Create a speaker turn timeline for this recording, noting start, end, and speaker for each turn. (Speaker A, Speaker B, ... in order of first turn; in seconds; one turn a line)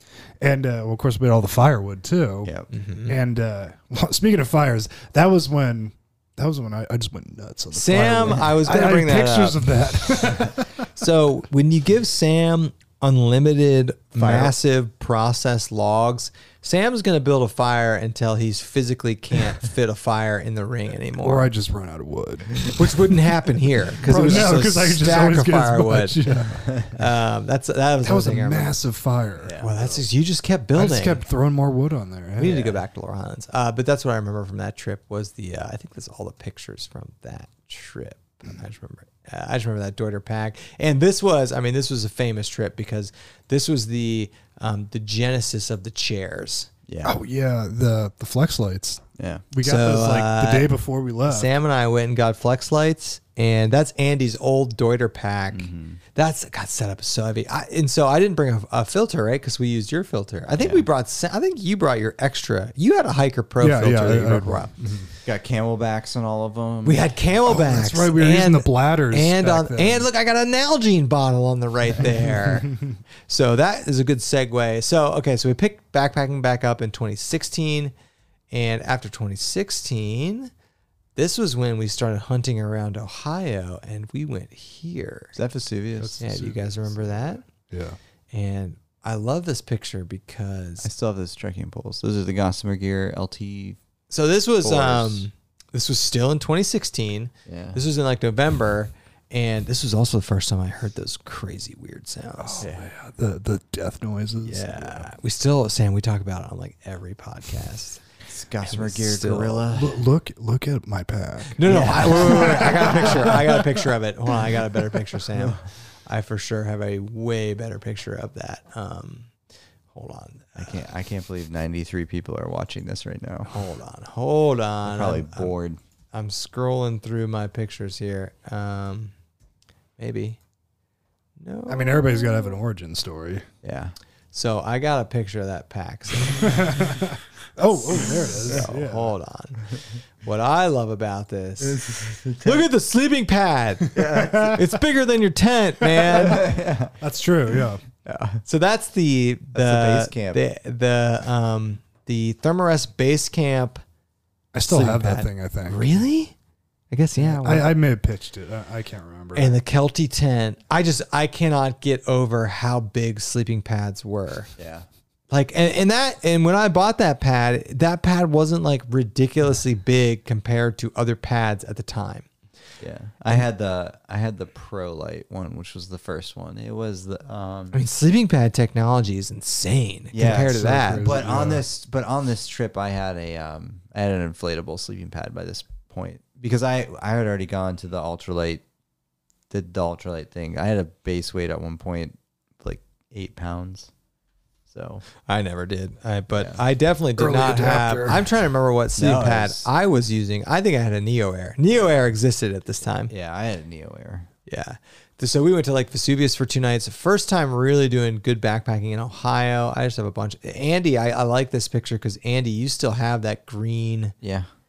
Speaker A: 0.4-2.5
Speaker B: 2.7-3.2
Speaker A: 3.1-10.9
Speaker B: 7.7-9.7
Speaker B: 10.9-21.5
Speaker C: 14.2-14.5
Speaker A: 21.2-22.9
Speaker B: 22.7-28.7
Speaker A: 24.0-26.6
Speaker C: 26.6-27.0
Speaker A: 28.0-30.1
Speaker C: 29.4-29.7
Speaker B: 29.6-31.2
Speaker A: 30.7-32.7
Speaker B: 32.4-46.7
Speaker C: 32.5-32.7
Speaker C: 46.9-47.1
Speaker A: 47.0-51.5
Speaker C: 49.2-49.4
Speaker B: 49.6-50.7
Speaker B: 51.3-64.7
Speaker C: 55.5-56.0
Speaker C: 60.6-60.9
Speaker A: 63.6-65.1
Speaker C: 65.2-67.1
Speaker B: 66.8-77.9
Speaker A: 67.5-70.1
Speaker B: 78.5-80.5
Speaker B: 81.2-85.3
Speaker C: 85.3-86.2
Speaker A: 86.0-86.7
Speaker B: 86.2-87.4
Speaker A: 87.7-88.0
Speaker B: 88.3-90.9
Speaker C: 90.8-93.8
Speaker B: 94.1-102.7
Speaker C: 94.6-95.3
Speaker C: 97.5-97.8
Speaker A: 102.4-105.1
Speaker C: 102.6-102.9
Speaker B: 104.4-108.0
Speaker C: 108.2-110.0
Speaker B: 108.6-109.7
Speaker A: 109.7-113.8
Speaker B: 111.5-119.3
Speaker C: 111.7-113.4
Speaker C: 115.3-115.6
Speaker B: 119.9-120.8
Speaker C: 120.6-123.5
Speaker B: 123.5-125.5
Speaker C: 124.8-125.8
Speaker B: 126.1-129.1
Speaker B: 130.0-130.4
Speaker B: 131.4-132.5
Speaker A: 131.7-133.4
Speaker C: 133.6-133.9
Speaker B: 134.3-136.9
Speaker A: 136.3-139.1
Speaker B: 137.7-146.5
Speaker C: 141.6-142.7
Speaker C: 143.9-144.5
Speaker A: 144.0-144.6
Speaker A: 146.0-146.4
Speaker C: 146.1-146.9
Speaker A: 147.0-147.8
Speaker C: 148.1-148.4
Speaker B: 148.4-153.8
Speaker C: 149.5-150.4
Speaker A: 154.5-155.9
Speaker B: 154.6-156.3
Speaker B: 156.9-157.7
Speaker A: 157.2-159.6
Speaker B: 159.3-164.5
Speaker C: 164.6-164.8
Speaker B: 165.3-172.3
Speaker C: 172.8-177.8
Speaker B: 177.7-181.1
Speaker C: 180.1-188.6
Speaker A: 180.3-181.6
Speaker C: 189.5-193.9
Speaker C: 194.7-195.0
Speaker B: 195.2-203.1
Speaker C: 196.3-196.6
Speaker A: 197.2-198.2
Speaker C: 199.0-199.7
Speaker C: 203.1-204.3
Speaker B: 204.5-214.1
Speaker C: 214.2-214.5